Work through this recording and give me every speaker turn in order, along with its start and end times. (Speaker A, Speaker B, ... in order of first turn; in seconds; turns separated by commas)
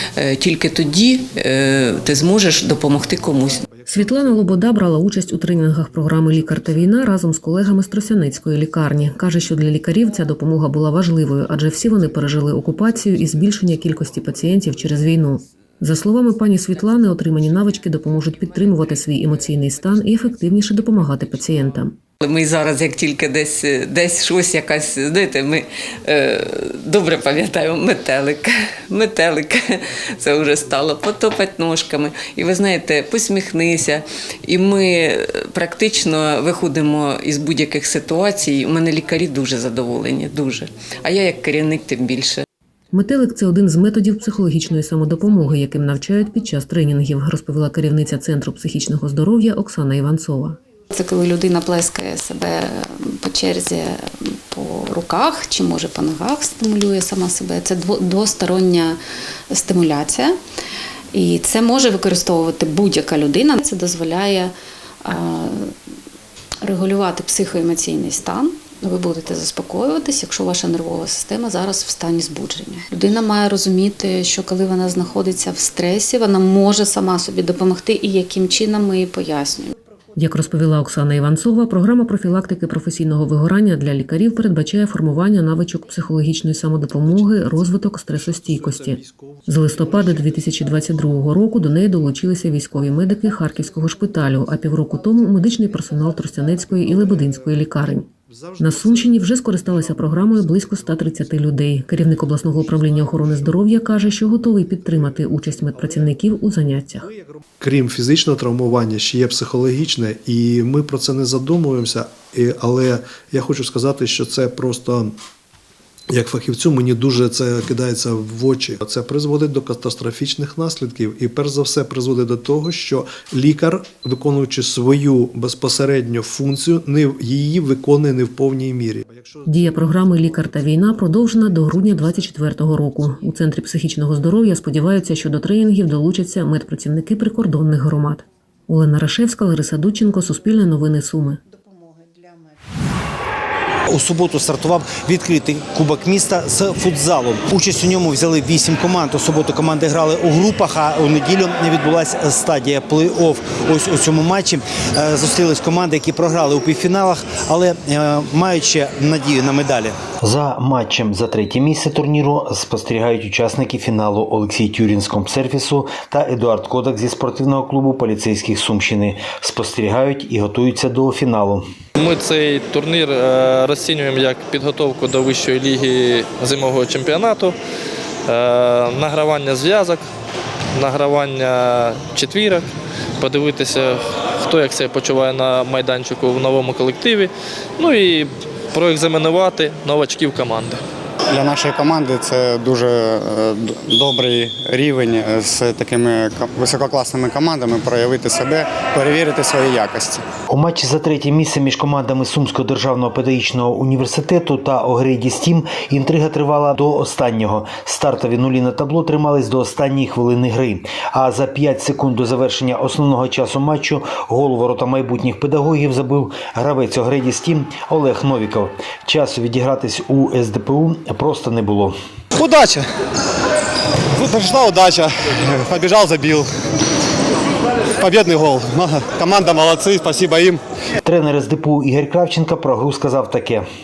Speaker A: 0.2-3.5, Speaker B: 0.4-0.8, Speaker C: 3.8-21.9, Speaker A: 22.2-25.5, Speaker A: 26.1-28.4, Speaker B: 28.4-29.0, Speaker A: 29.0-29.7, Speaker A: 30.2-31.8, Speaker B: 30.5-33.3, Speaker A: 32.4-33.9, Speaker B: 33.8-34.7, Speaker A: 34.6-42.4, Speaker B: 35.5-37.1, Speaker B: 37.7-39.0, Speaker B: 40.5-41.8, Speaker C: 42.9-50.6, Speaker B: 50.9-59.0, Speaker B: 59.5-60.4, Speaker B: 61.1-64.5, Speaker B: 65.0-65.7, Speaker B: 66.6-79.7, Speaker C: 80.2-107.1, Speaker D: 87.0-91.2, Speaker D: 95.0-101.6, Speaker D: 102.1-106.3, Speaker D: 107.0-115.2, Speaker D: 116.1-132.2, Speaker C: 129.4-141.4, Speaker E: 143.9-159.9, Speaker F: 160.2-171.7, Speaker G: 172.0-177.5, Speaker G: 178.3-180.0, Speaker G: 180.8-182.6, Speaker G: 183.2-187.3, Speaker G: 187.8-190.8, Speaker H: 191.3-200.2, Speaker F: 200.5-221.9, Speaker H: 222.4-222.8, Speaker H: 224.2-225.1, Speaker H: 225.7-226.4, Speaker H: 228.0-230.6, Speaker F: 231.0-233.7